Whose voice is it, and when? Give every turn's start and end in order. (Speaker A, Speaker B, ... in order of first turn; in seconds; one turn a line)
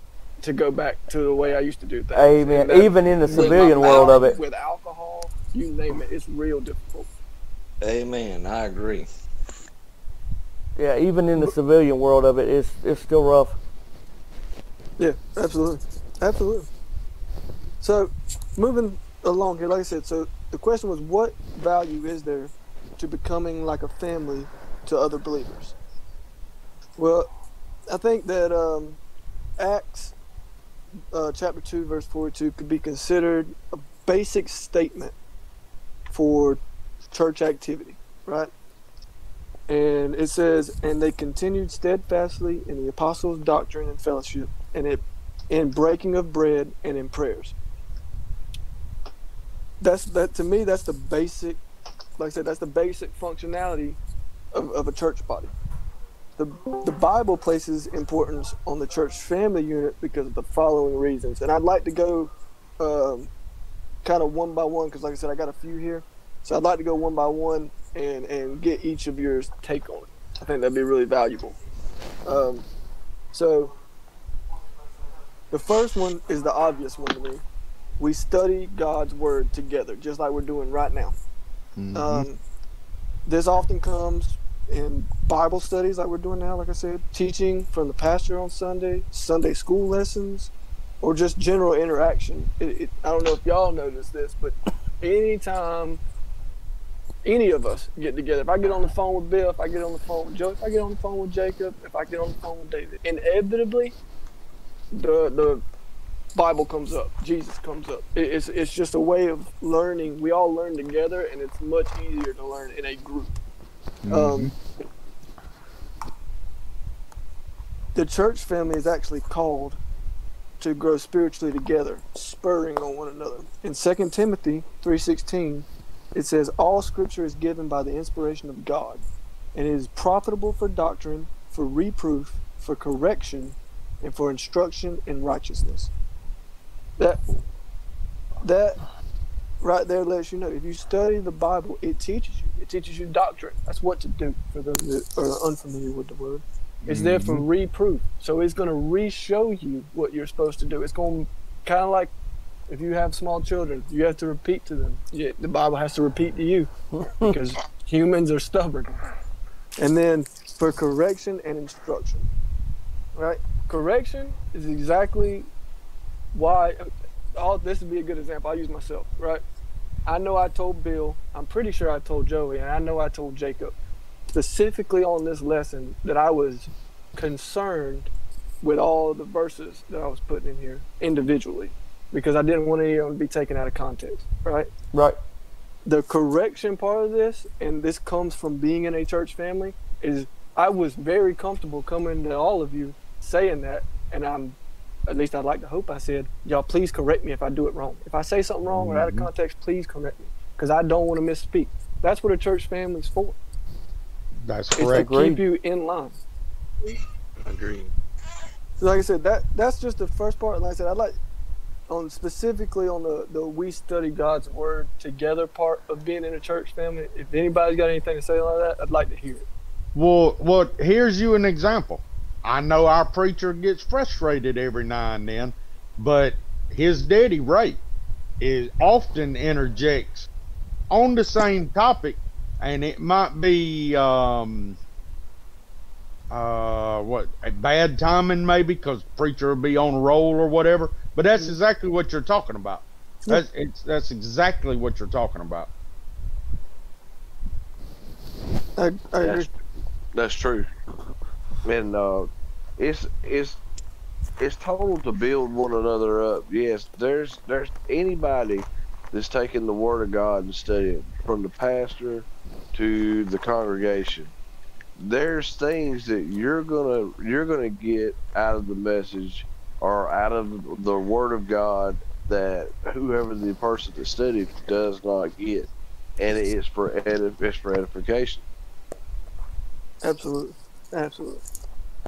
Speaker A: 0.4-7.1
Speaker B: 2.1-4.4
Speaker C: 3.3-4.2
Speaker C: 7.8-9.1
Speaker B: 10.8-13.6
Speaker A: 15.0-16.7
Speaker A: 17.8-25.8
Speaker A: 27.0-27.3
Speaker A: 27.9-29.0
Speaker A: 29.6-30.1
Speaker A: 31.1-35.1
Speaker A: 36.1-38.5
Speaker A: 39.7-47.6
Speaker A: 49.8-51.6
Speaker A: 52.2-54.0
Speaker A: 54.5-55.5
Speaker A: 56.4-63.3
Speaker A: 64.0-71.6
Speaker A: 72.2-72.7
Speaker A: 73.3-73.7
Speaker A: 75.5-77.4
Speaker A: 78.0-81.2
Speaker D: 81.8-82.3
Speaker A: 82.0-82.4
Speaker A: 83.3-96.0
Speaker A: 97.2-104.0
Speaker A: 104.9-105.6
Speaker A: 106.3-113.3
Speaker D: 114.0-114.5
Speaker A: 114.1-114.5
Speaker A: 118.0-119.8
Speaker A: 120.6-129.0
Speaker A: 129.6-135.9
Speaker A: 138.4-138.8
Speaker A: 139.6-152.1
Speaker D: 146.8-147.4
Speaker A: 152.7-156.7
Speaker B: 157.0-157.3
Speaker A: 157.2-158.9
Speaker A: 159.8-162.3
Speaker A: 163.2-165.5
Speaker A: 166.3-169.4
Speaker A: 170.1-173.7
Speaker A: 174.3-184.7
Speaker A: 185.9-194.6
Speaker A: 195.1-203.4
Speaker D: 198.7-199.3
Speaker D: 204.5-205.1
Speaker A: 204.8-206.2
Speaker B: 204.9-205.4
Speaker C: 206.9-207.9
Speaker A: 208.8-211.2
Speaker A: 211.9-219.5
Speaker D: 219.9-227.8
Speaker D: 228.4-230.3
Speaker D: 230.9-234.8
Speaker D: 236.3-245.7
Speaker A: 248.8-249.5
Speaker E: 249.2-249.5
Speaker E: 250.1-250.7
Speaker E: 251.7-253.6
Speaker E: 254.4-264.3
Speaker E: 265.0-278.4
Speaker A: 280.0-281.4